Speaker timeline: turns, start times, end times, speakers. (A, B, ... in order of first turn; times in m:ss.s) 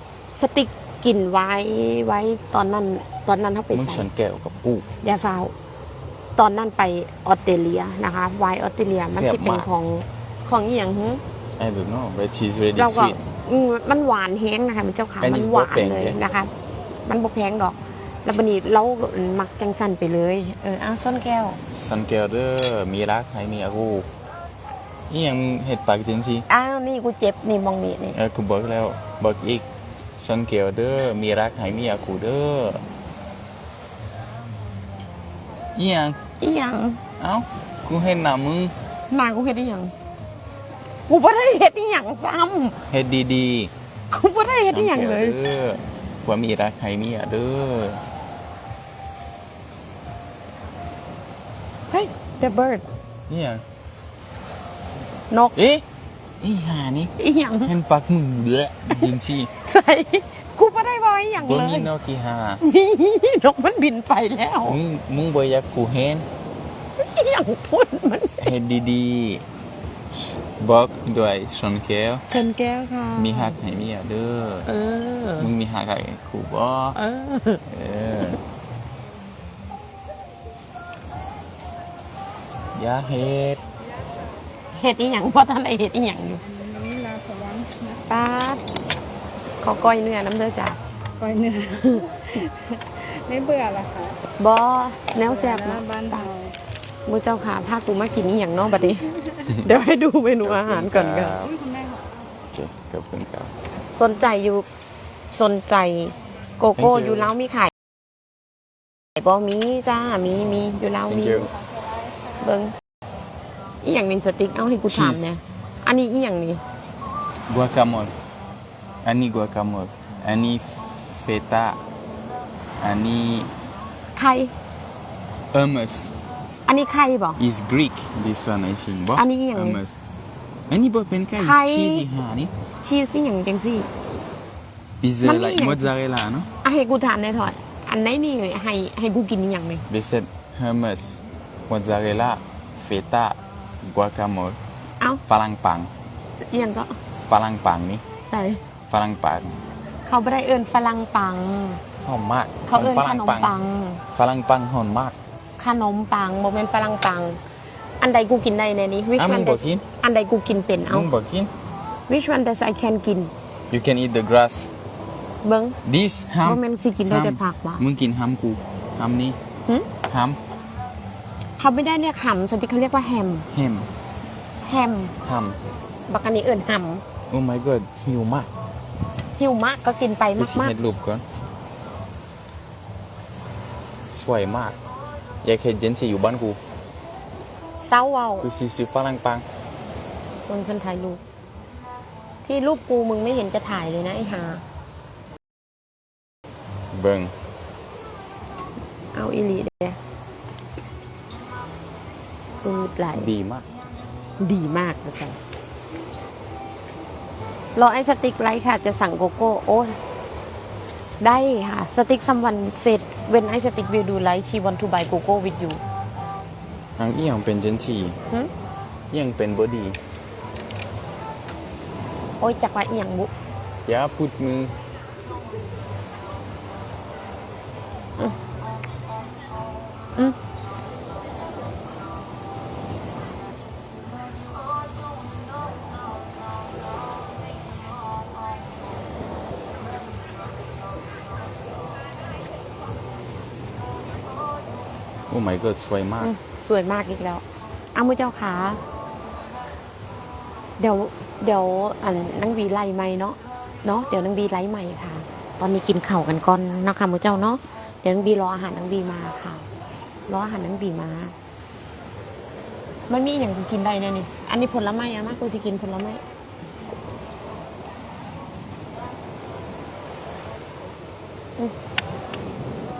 0:00.3-0:04.1 A
0:03.7-0:04.9 B
0:05.0-0:05.5 A
0:06.4-0:11.2 A
0:09.1-0:09.7 B
0:11.6-0:13.2 B
0:12.8-0:16.5 A
0:15.2-0:16.2 B
0:17.0-0:21.6 A
0:21.7-0:24.1 B
0:25.1-0:26.4 B
0:26.5-0:28.2 A
0:28.1-0:29.6 B
0:30.2-0:32.8 B
0:35.8-0:36.2 B
0:36.4-0:37.0 A
0:37.2-0:38.7 B
0:39.1-0:39.9 A
0:41.1-0:42.8 A
0:42.9-0:43.7 B
0:44.1-0:45.4 A
0:44.7-0:48.0 B
0:51.9-0:52.8 A
0:53.3-0:53.6 B
0:55.5-0:55.8 B
0:56.4-0:57.1 B
0:57.2-0:57.7 A
0:57.6-0:59.5 B
0:59.6-1:01.9 A
1:01.4-1:02.6 B
1:02.6-1:04.8 A
1:04.7-1:06.2 B
1:07.0-1:08.5 A
1:08.4-1:09.4 B
1:10.1-1:12.2 B
1:12.3-1:13.6 A
1:13.1-1:14.7 B
1:14.6-1:15.5 A
1:15.4-1:17.0 B
1:16.9-1:17.6 A
1:17.6-1:18.4 B
1:22.7-1:23.6 B
1:23.8-1:24.4 C
1:24.7-1:26.4 A
1:26.4-1:28.1 C
1:28.1-1:28.6 A
1:29.6-1:30.8 A
1:31.2-1:34.2 C
1:31.8-1:32.0 A
1:34.4-1:36.3 A
1:35.2-1:36.5 C
1:37.1-1:41.4 A
1:40.4-1:41.5 B
1:41.4-1:42.3 C
1:42.5-1:43.5 B
1:43.9-1:44.6 A
1:45.3-1:47.7 A
1:46.8-1:47.3 B
1:49.2-1:51.5 A
1:51.1-1:51.5 B
1:51.4-1:52.6 C
1:52.4-1:52.7 A
1:53.8-1:56.6 A
1:54.9-1:55.3 B
1:57.5-1:58.1 B
1:59.0-2:01.8 B
2:02.8-2:03.5 B
2:04.2-2:04.5 A
2:05.5-2:06.1 B
2:06.7-2:07.4 A
2:07.4-2:10.0 B
2:09.1-2:09.8 A
2:10.7-2:12.5 B
2:11.4-2:12.1 A
2:12.8-2:13.9 A
2:15.0-2:16.5 B
2:15.2-2:15.9 A
2:16.6-2:19.8 A
2:19.9-2:24.6 B
2:25.2-2:25.9 B
2:26.5-2:27.0 A
2:27.2-2:28.0 B
2:28.3-2:28.6 A
2:28.9-2:29.6 B
2:30.0-2:31.8 A
2:32.0-2:33.6 B
2:32.7-2:34.0 A
2:34.1-2:35.2 B
2:35.6-2:37.4 A
2:38.0-2:41.1 A
2:39.2-2:39.8 B
2:40.9-2:41.5 B
2:42.1-2:43.3 A
2:43.7-2:44.7 B
2:45.4-2:45.8 A
2:45.8-2:49.4 B
2:46.4-2:47.8 A
2:50.1-2:50.4 B
2:51.6-2:53.5 A
2:53.5-2:53.9 B
2:54.6-2:55.1 A
2:55.2-2:55.6 B
2:56.1-2:57.0 A
2:57.3-2:58.5 B
2:59.4-3:00.7 A
3:00.4-3:01.2 B
3:04.1-3:04.8 B
3:05.4-3:06.6 B
3:07.8-3:08.5 A
3:08.4-3:09.4 B
3:10.5-3:11.2 A
3:12.4-3:14.6 A
3:16.9-3:17.3 B
3:19.1-3:20.0 A
3:22.6-3:23.3 A
3:23.1-3:23.7 B
3:24.4-3:25.4 A
3:27.8-3:30.0 A
3:31.2-3:35.8 A
3:37.0-3:38.2 B
3:39.1-3:40.0 B
3:42.4-3:43.3 A
3:43.8-3:44.7 B
4:05.3-4:06.3 B
4:06.2-4:07.4 A
4:07.9-4:08.8 A
4:10.8-4:19.6 A
4:20.3-4:21.3 A
4:23.1-4:26.2 A